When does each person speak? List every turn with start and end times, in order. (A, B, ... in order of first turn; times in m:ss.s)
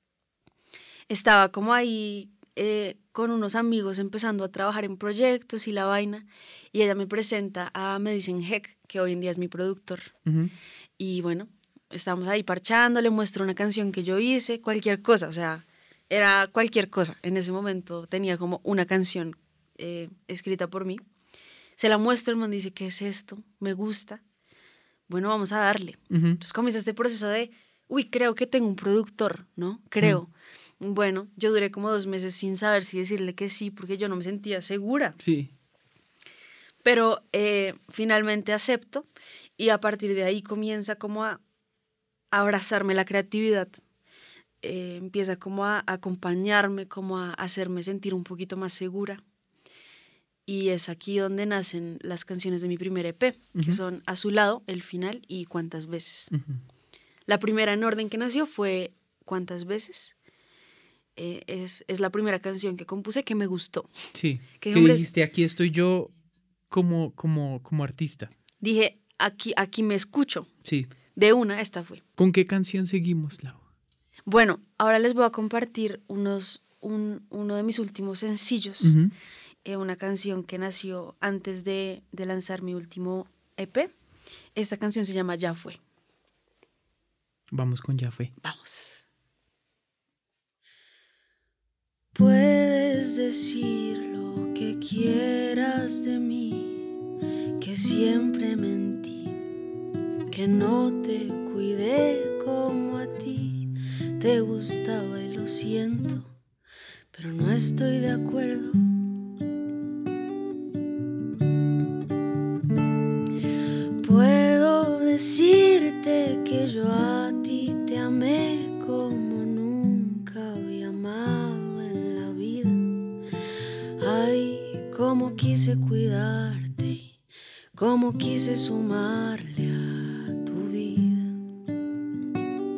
0:01.1-0:10.1 A
0:10.2-0:10.5 B
0:11.0-0:21.0 A
0:21.8-0:24.2 A
0:25.1-0:35.2 A
0:26.1-0:26.4 B
0:35.2-0:35.5 B
0:36.8-0:39.1 A
0:39.6-0:41.4 A
0:42.3-0:43.8 A
0:44.6-0:49.2 A
0:50.5-0:56.3 A
0:53.6-0:53.8 B
0:56.3-0:56.6 B
0:57.3-1:00.1 A
1:01.2-1:03.9 A
1:04.1-1:06.1 B
1:04.6-1:05.1 A
1:06.7-1:08.3 B
1:08.6-1:10.5 A
1:10.6-1:10.9 B
1:11.1-1:12.0 A
1:12.2-1:13.6 B
1:14.3-1:19.0 A
1:18.8-1:19.1 B
1:19.6-1:23.9 A
1:24.6-1:25.8 A
1:27.5-1:28.3 B
1:28.4-1:29.0 A
1:32.1-1:36.8 A
1:37.6-1:39.3 A
1:40.3-1:46.3 A
1:47.1-1:48.9 A
1:54.0-2:02.9 A
2:04.0-2:07.1 A
2:07.8-2:11.4 A